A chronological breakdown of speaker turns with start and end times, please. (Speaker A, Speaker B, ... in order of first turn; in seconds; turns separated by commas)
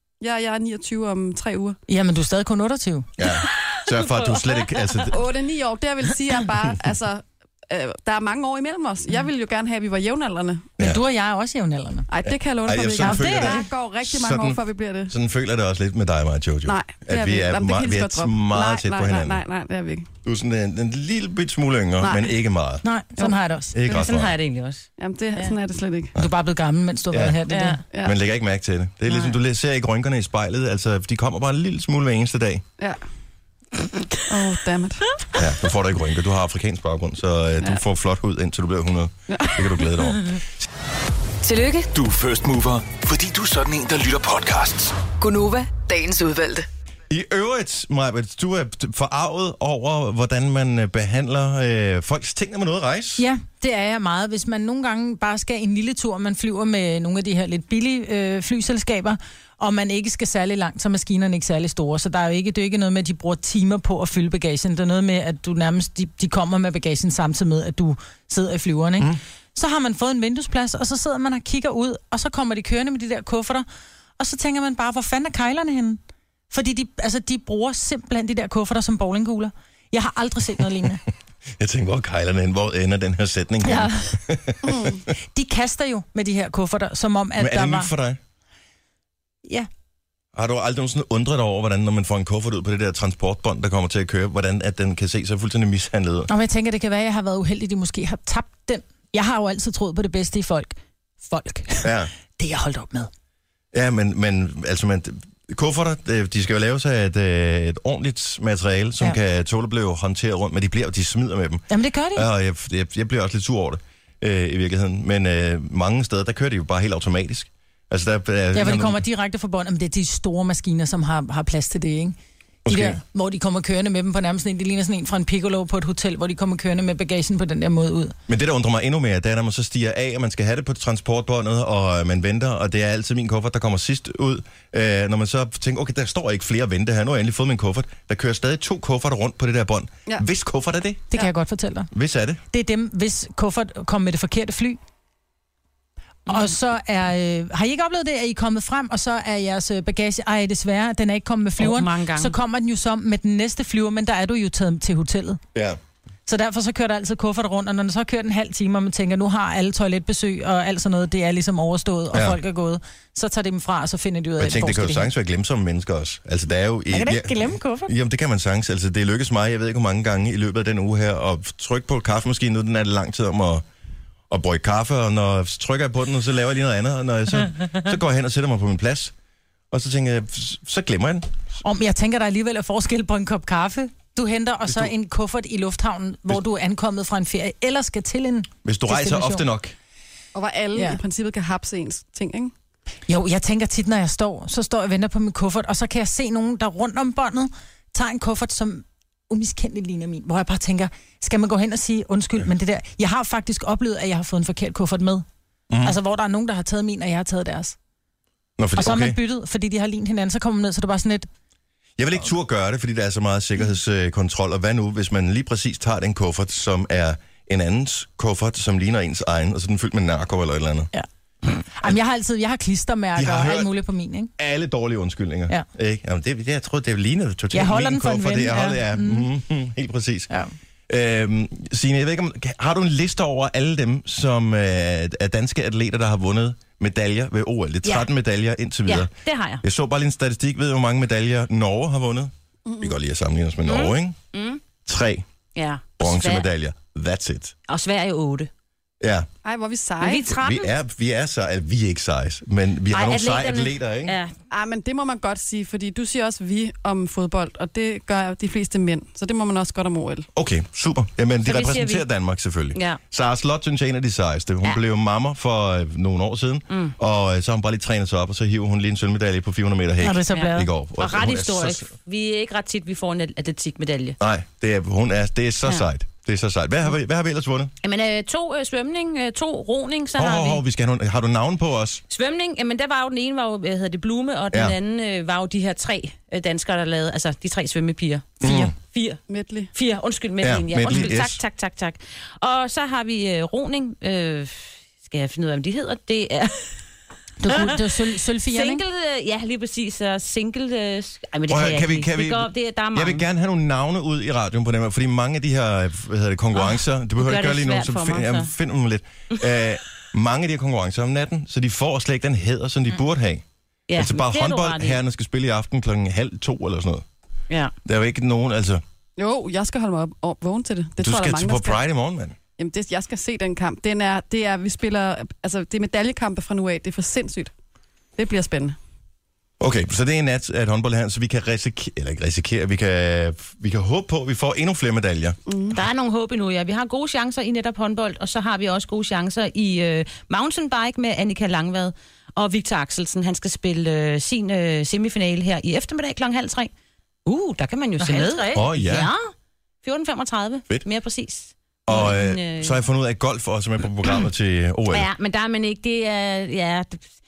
Speaker A: 0.2-1.8, Speaker B: 1.9-3.1, Speaker C: 3.2-5.2, Speaker D: 3.5-5.0, Speaker A: 5.1-10.7, Speaker B: 10.8-12.1, Speaker A: 12.1-15.1, Speaker C: 12.2-19.4, Speaker B: 13.0-13.7, Speaker A: 16.7-20.1, Speaker C: 20.2-22.8, Speaker A: 22.0-22.3, Speaker B: 22.8-23.8, Speaker C: 23.7-24.4, Speaker D: 23.9-25.5, Speaker A: 25.0-26.1, Speaker B: 26.2-27.8, Speaker C: 27.1-27.4, Speaker D: 27.5-27.8, Speaker A: 27.9-28.2, Speaker C: 28.0-32.6, Speaker A: 34.3-35.0, Speaker C: 35.4-40.7, Speaker A: 39.3-39.9, Speaker E: 41.4-41.9, Speaker F: 41.9-45.0, Speaker E: 45.2-46.7, Speaker C: 47.1-53.2, Speaker B: 53.2-73.7, Speaker B: 74.2-76.0, Speaker B: 76.5-81.0, Speaker C: 81.6-85.0, Speaker B: 83.6-84.1, Speaker A: 84.7-85.0, Speaker B: 85.3-87.9, Speaker C: 87.4-88.2, Speaker C: 90.3-96.3, Speaker B: 96.3-103.1, Speaker C: 101.8-102.1, Speaker C: 103.7-119.0, Speaker B: 111.7-112.3, Speaker B: 118.5-122.2, Speaker C: 122.7-123.0, Speaker B: 122.7-128.2, Speaker C: 128.3-141.1, Speaker B: 141.1-141.9, Speaker C: 141.9-142.4, Speaker B: 142.5-144.8, Speaker B: 146.3-155.4, Speaker D: 151.6-152.3, Speaker B: 156.3-165.1, Speaker C: 162.1-162.4, Speaker C: 164.4-173.6, Speaker B: 166.9-167.9, Speaker C: 174.3-179.1, Speaker C: 179.7-181.3, Speaker B: 181.6-189.4, Speaker C: 184.7-184.9, Speaker C: 188.6-189.8, Speaker A: 190.3-192.5, Speaker B: 190.8-191.0, Speaker B: 193.1-205.2, Speaker C: 205.7-206.0, Speaker B: 205.8-207.8, Speaker C: 208.6-209.2, Speaker B: 208.8-211.3, Speaker C: 212.0-220.9, Speaker B: 220.9-224.3, Speaker C: 223.2-223.7, Speaker C: 224.4-230.3, Speaker B: 227.5-229.3, Speaker C: 230.9-244.2, Speaker D: 238.9-239.6, Speaker A: 242.7-242.9, Speaker D: 243.7-244.6, Speaker C: 244.8-245.2, Speaker D: 245.6-246.5, Speaker C: 246.0-247.5, Speaker D: 247.7-248.5, Speaker C: 249.0-249.3, Speaker A: 249.4-250.3, Speaker D: 250.0-250.7, Speaker C: 250.3-254.2, Speaker D: 252.9-254.3, Speaker A: 254.5-260.3, Speaker C: 260.4-271.9, Speaker D: 261.4-262.0, Speaker D: 262.8-263.0, Speaker D: 266.7-266.9, Speaker B: 270.0-270.7, Speaker D: 270.3-274.2, Speaker C: 274.2-277.7, Speaker D: 277.8-280.6, Speaker C: 280.2-282.0, Speaker D: 282.1-289.2, Speaker C: 288.4-288.7, Speaker A: 289.3-289.7, Speaker D: 289.7-296.8, Speaker C: 290.4-291.4, Speaker B: 297.4-298.8, Speaker D: 297.5-297.8, Speaker D: 298.5-303.2, Speaker C: 301.5-313.4, Speaker D: 306.6-308.5, Speaker D: 313.9-315.0, Speaker C: 314.0-317.1, Speaker C: 317.9-318.8, Speaker A: 319.2-321.8, Speaker C: 321.0-322.4, Speaker A: 322.6-327.5, Speaker A: 328.2-328.8, Speaker C: 329.6-335.4, Speaker A: 335.5-335.8, Speaker D: 335.7-346.7, Speaker D: 347.3-349.3, Speaker B: 348.0-348.4, Speaker C: 348.5-349.1, Speaker D: 349.8-352.8, Speaker C: 351.9-355.1, Speaker D: 354.9-357.1